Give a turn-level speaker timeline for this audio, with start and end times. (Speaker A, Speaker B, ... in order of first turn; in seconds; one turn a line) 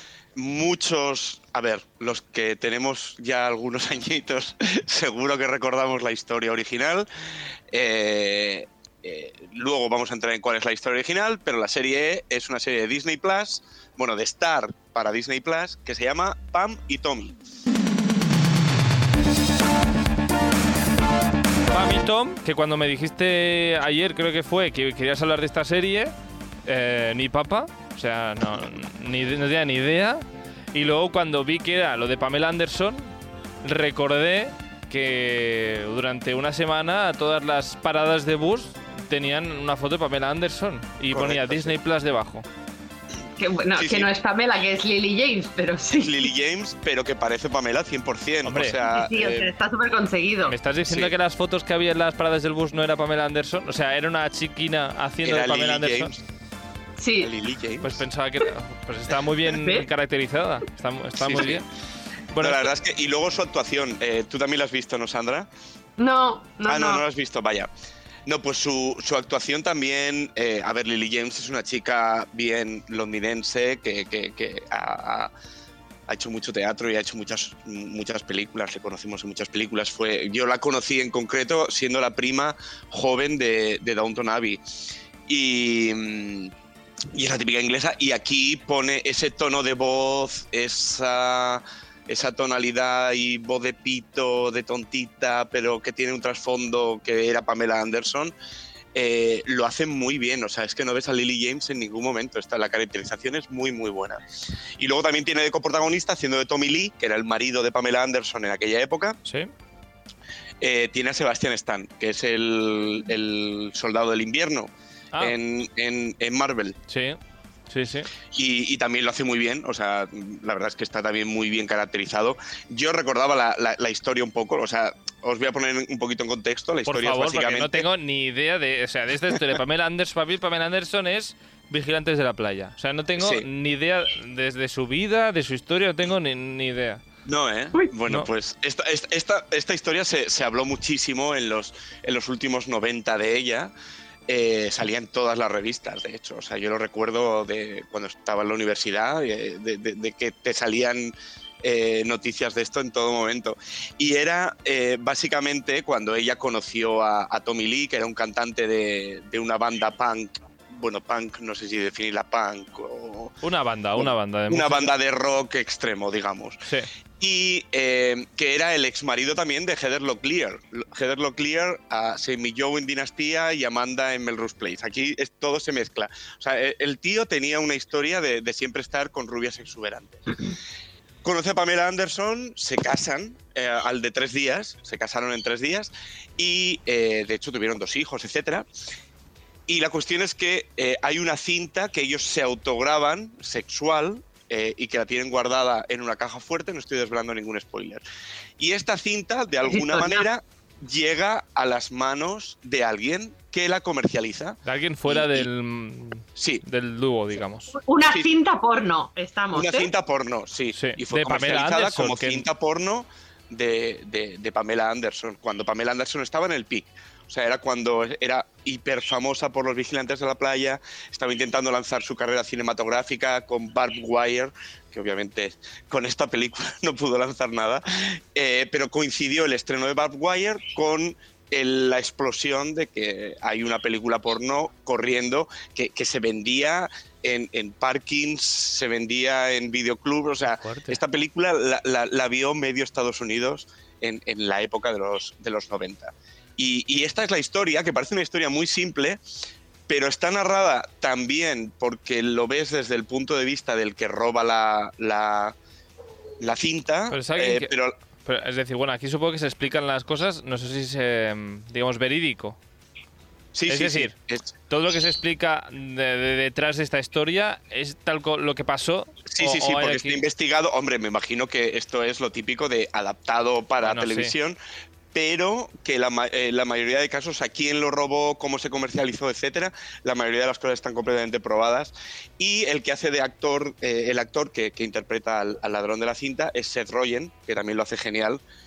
Speaker A: 0.3-7.1
Speaker A: 7.7-17.4
Speaker B: 21.7-26.1
Speaker B: 26.6-42.4
Speaker A: 41.1-41.8
Speaker C: 43.4-46.3
Speaker A: 43.8-44.1
Speaker A: 46.0-49.5
Speaker B: 48.4-48.8
Speaker C: 48.8-50.5
Speaker B: 50.5-56.1
Speaker A: 50.9-51.1
Speaker A: 55.2-56.2
Speaker C: 57.0-57.3
Speaker A: 57.2-58.0
Speaker B: 57.8-61.6
Speaker C: 59.5-59.9
Speaker A: 61.2-61.6
Speaker B: 62.3-62.7
Speaker A: 62.4-65.5
Speaker C: 66.0-67.0
Speaker A: 66.7-67.7
Speaker A: 68.2-75.3
Speaker A: 76.1-86.5
Speaker A: 87.1-98.3
Speaker A: 98.9-109.2
Speaker A: 110.6-116.8
Speaker B: 116.9-117.2
Speaker B: 117.7-118.1
Speaker A: 118.3-127.9
Speaker B: 126.8-137.0
Speaker A: 133.2-133.5
Speaker A: 137.2-143.7
Speaker A: 144.3-163.4
Speaker B: 163.4-164.8
Speaker A: 163.9-166.6
Speaker A: 167.2-180.3
Speaker A: 181.2-188.7
Speaker A: 189.7-198.0
Speaker A: 198.6-205.5
Speaker C: 199.6-200.3
Speaker B: 204.6-207.8
Speaker A: 206.3-206.6
Speaker C: 207.7-209.9
Speaker A: 208.0-208.3
Speaker A: 209.5-249.2
Speaker B: 210.7-212.5
Speaker B: 240.6-241.0
Speaker A: 249.9-255.6
Speaker A: 256.4-257.9
Speaker B: 257.1-257.7
Speaker B: 258.2-262.6
Speaker A: 263.5-264.5
Speaker B: 263.7-264.1
Speaker B: 264.7-270.2
Speaker A: 269.2-274.6
Speaker B: 273.8-274.3
Speaker A: 275.1-288.4